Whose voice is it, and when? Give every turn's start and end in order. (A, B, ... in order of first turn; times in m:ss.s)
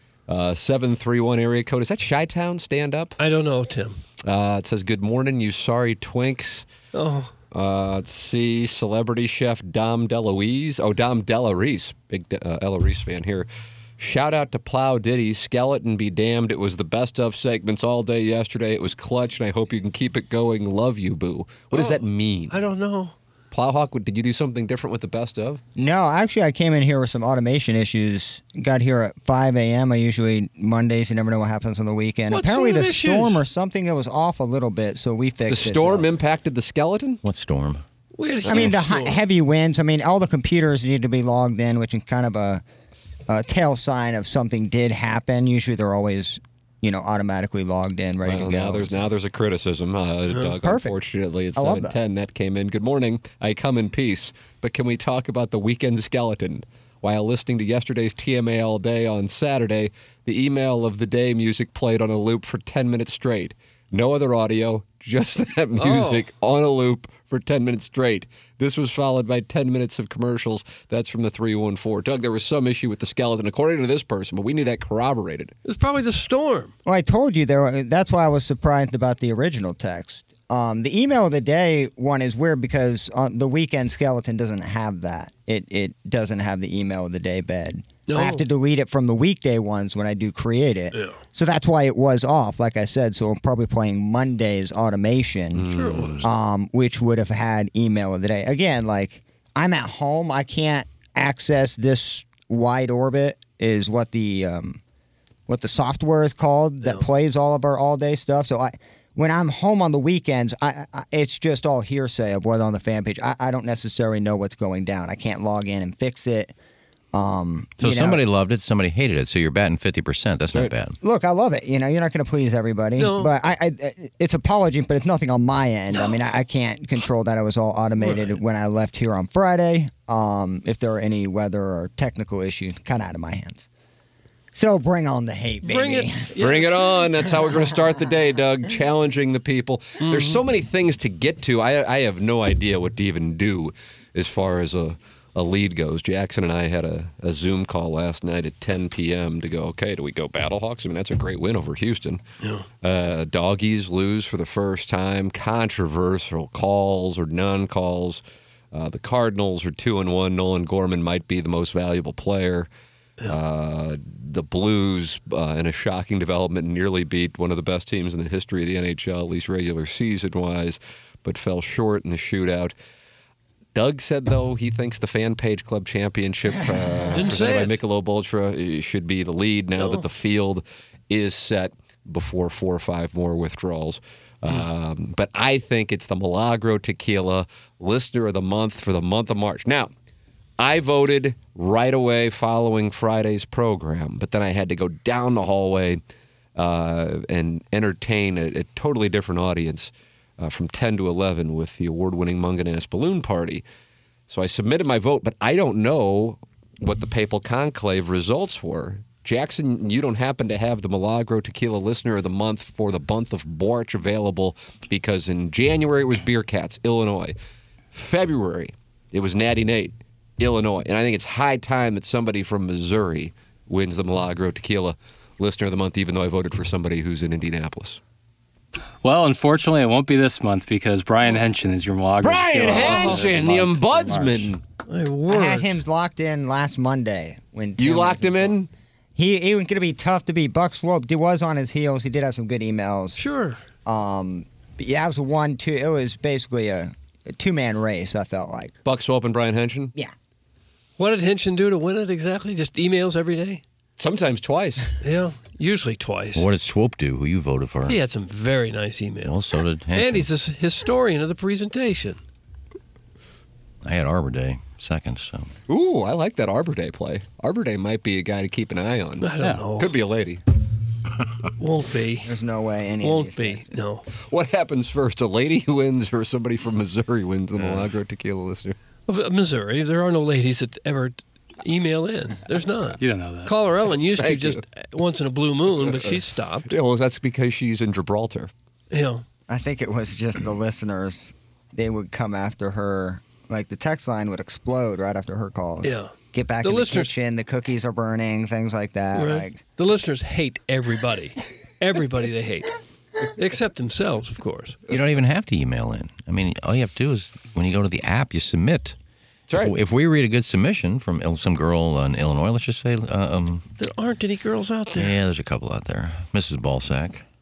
0:00.3-0:03.2 A
0:03.2-0:04.0 B
0:04.2-0:06.7 A
0:06.9-0:07.3 B
0:07.5-0:13.5 A
0:14.0-0:22.6 A
0:21.7-0:23.1 B
0:23.5-0:25.6 A
0:25.8-0:36.1 C
0:32.3-0:33.4 B
0:35.5-0:37.2 A
0:37.2-0:37.8 D
0:38.2-0:39.2 B
0:38.4-0:42.6 C
0:38.5-0:38.7 A
0:43.3-0:49.0 C
0:48.2-1:15.5 A
0:50.6-0:51.0 C
0:51.6-0:52.0 C
1:05.8-1:06.2 B
1:15.6-1:16.7 B
1:16.8-1:35.7 C
1:28.1-1:28.4 B
1:30.9-1:31.2 B
1:35.5-1:36.3 A
1:35.7-1:36.3 B
1:36.2-1:44.8 C
1:45.5-1:56.5 C
1:57.1-1:58.2 C
1:57.8-2:01.0 D
2:01.0-2:13.6 C
2:03.0-2:03.3 B
2:08.0-2:08.3 B
2:14.5-2:16.3 C
2:15.6-2:16.7 B
2:16.4-2:32.2 A
2:20.0-2:20.4 B
2:32.8-2:42.7 A
2:43.2-2:52.7 A
2:53.7-3:09.9 A
2:57.1-2:57.8 B
3:10.6-3:16.0 A
3:16.6-3:23.6 A
3:24.3-3:37.3 A
3:37.9-3:48.0 A
3:49.0-3:54.5 E
3:52.2-3:54.6 A
3:52.6-3:53.3 B
3:54.9-3:55.7 B
3:55.3-3:58.5 C
3:57.8-3:58.7 A
3:59.2-4:03.2 C
4:03.2-4:03.6 B
4:03.8-4:08.8 C
4:08.8-4:09.9 A
4:11.0-4:13.6 B
4:14.0-4:14.9 A
4:15.0-4:16.5 B
4:16.3-4:18.0 D
4:17.8-4:19.4 B
4:19.2-4:20.2 D
4:19.9-4:22.2 B
4:23.8-4:25.5 D
4:25.7-4:30.4 A
4:29.2-4:29.9 B
4:31.6-4:32.3 B
4:32.2-4:33.7 C
4:33.0-4:34.0 B
4:34.2-4:38.8 A
4:39.1-4:46.7 B
4:43.0-4:43.5 E
4:44.2-4:44.6 A
4:45.8-4:46.1 A
4:46.6-4:48.5 A
4:48.9-4:49.2 B
4:49.5-4:59.6 C
4:55.8-4:57.1 B
4:59.1-5:02.8 B
5:03.4-5:04.8 B
5:04.9-5:09.0 D
5:09.5-5:09.7 A
5:09.5-5:13.6 D
5:13.8-5:15.2 B
5:15.0-5:17.2 D